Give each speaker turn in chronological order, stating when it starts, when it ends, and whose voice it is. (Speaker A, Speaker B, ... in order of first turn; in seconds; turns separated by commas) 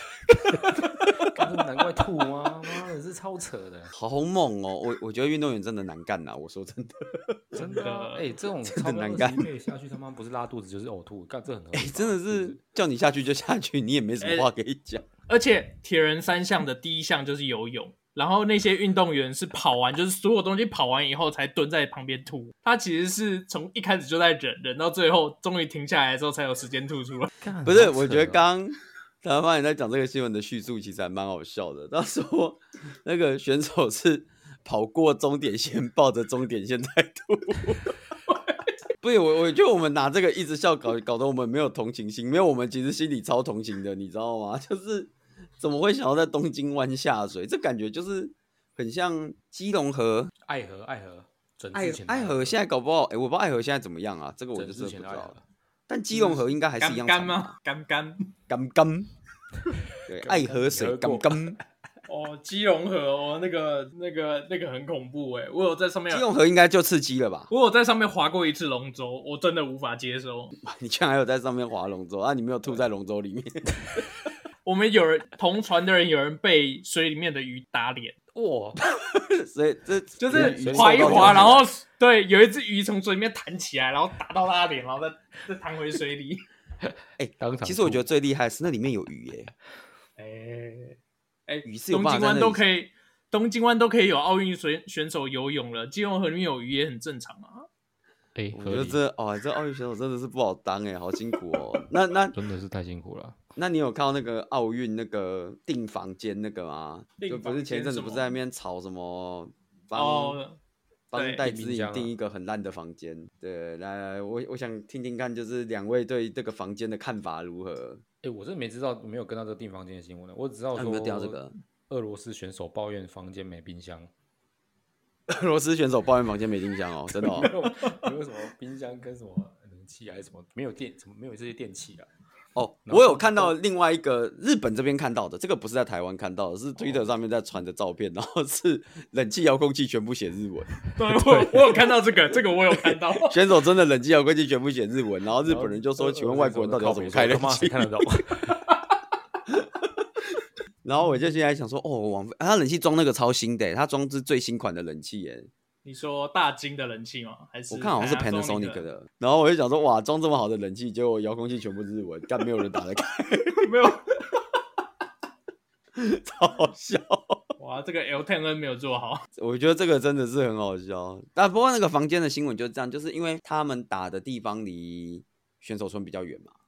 Speaker A: 0.5-3.9, Speaker B: 3.9-7.6, Speaker A: 7.5-12.6, Speaker C: 7.6-8.3, Speaker B: 8.6-9.5, Speaker B: 11.7-15.1, Speaker C: 14.2-14.5, Speaker C: 15.3-27.3, Speaker A: 27.4-28.4, Speaker B: 27.6-38.0, Speaker C: 38.3-38.6, Speaker B: 39.0-50.3, Speaker A: 50.4-52.5, Speaker B: 51.7-55.3, Speaker A: 54.5-55.4, Speaker B: 55.9-57.5, Speaker C: 56.1-58.3, Speaker B: 58.5-59.1, Speaker B: 60.1-61.6, Speaker A: 60.1-61.6, Speaker C: 62.1-66.2, Speaker B: 66.1-67.5, Speaker C: 67.5-70.5, Speaker B: 70.6-74.0, Speaker C: 74.6-78.2, Speaker A: 78.3-78.8, Speaker B: 78.8-81.6, Speaker C: 80.2-86.4, Speaker A: 80.3-81.6, Speaker A: 86.8-88.0, Speaker B: 87.2-89.5, Speaker C: 90.2-97.7, Speaker B: 91.6-92.6, Speaker A: 98.3-99.0, Speaker B: 98.5-102.4, Speaker A: 102.3-103.4, Speaker B: 103.6-110.4, Speaker C: 107.2-108.3, Speaker C: 109.9-110.6, Speaker B: 111.1-118.0, Speaker C: 111.1-111.4, Speaker A: 111.4-112.1, Speaker A: 118.2-121.4, Speaker B: 120.7-121.5, Speaker A: 121.9-124.1, Speaker B: 125.3-127.5, Speaker A: 127.1-132.1, Speaker B: 132.5-140.8, Speaker A: 132.9-133.5, Speaker C: 140.9-143.4, Speaker A: 141.2-141.5, Speaker B: 143.2-148.0, Speaker A: 145.4-148.6, Speaker B: 149.5-149.9, Speaker B: 150.8-155.5, Speaker C: 155.8-158.8, Speaker B: 157.7-163.7, Speaker C: 163.6-164.2, Speaker B: 165.9-167.4, Speaker C: 167.6-169.2, Speaker B: 169.3-176.5